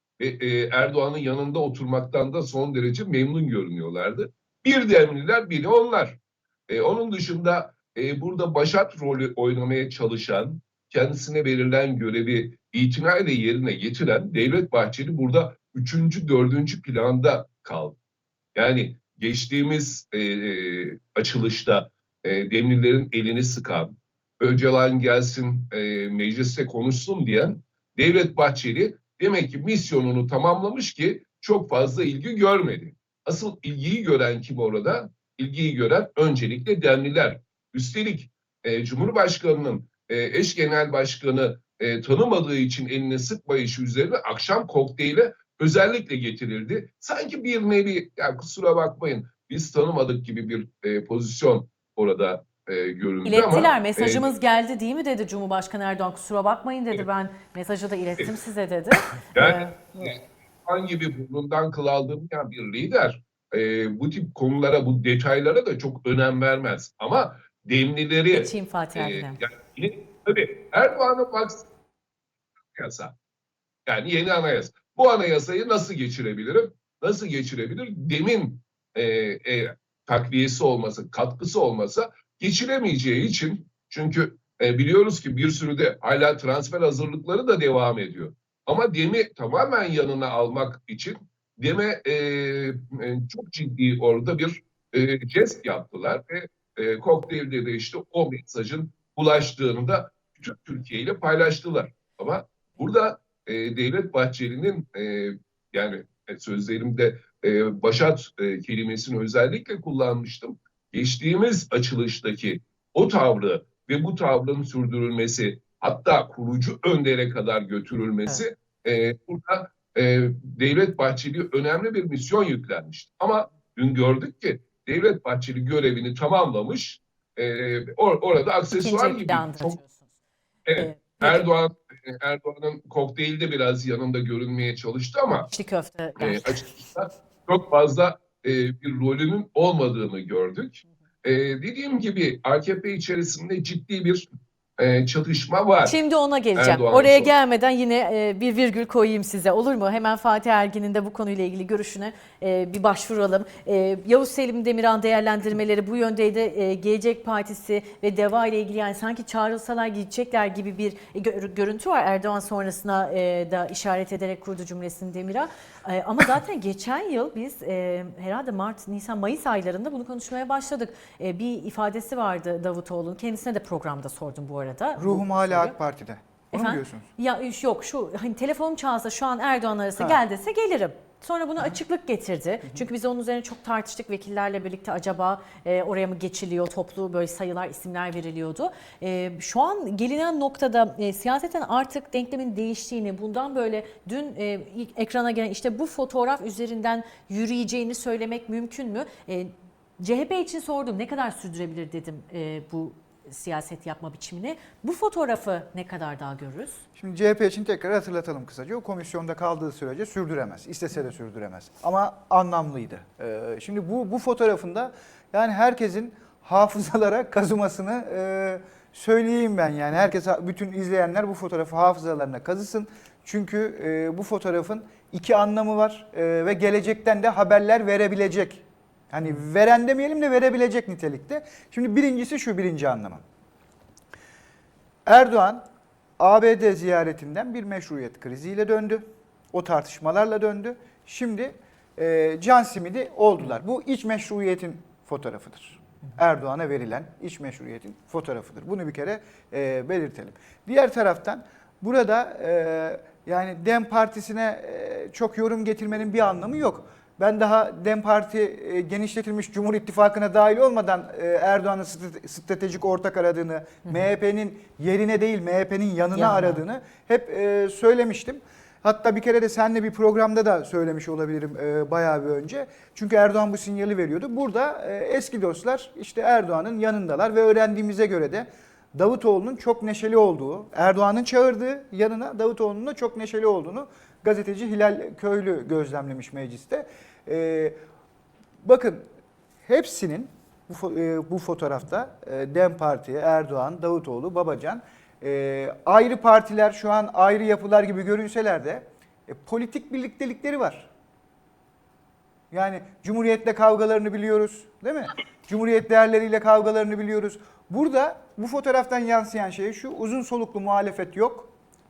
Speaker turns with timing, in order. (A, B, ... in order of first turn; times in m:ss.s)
0:00.2-0:18.0 A
0:18.5-0:54.3 A
0:53.2-1:00.2 B
0:59.3-1:11.7 A
1:08.3-1:09.4 B
1:12.8-1:13.1 A
1:13.8-2:09.8 A
2:08.7-2:10.0 B
2:10.7-2:15.5 A
2:10.8-2:11.4 B
2:15.5-2:16.8 B
2:16.2-2:25.9 A
2:25.8-2:55.7 B
2:26.5-2:27.3 A
2:55.0-2:57.1 C
2:56.5-3:26.8 B
3:27.0-3:53.2 C
3:55.0-3:55.6 C
3:56.2-4:47.8 C
4:26.1-4:26.6 B
4:48.6-4:49.0 C
4:49.7-5:00.9 C
5:02.5-5:11.5 C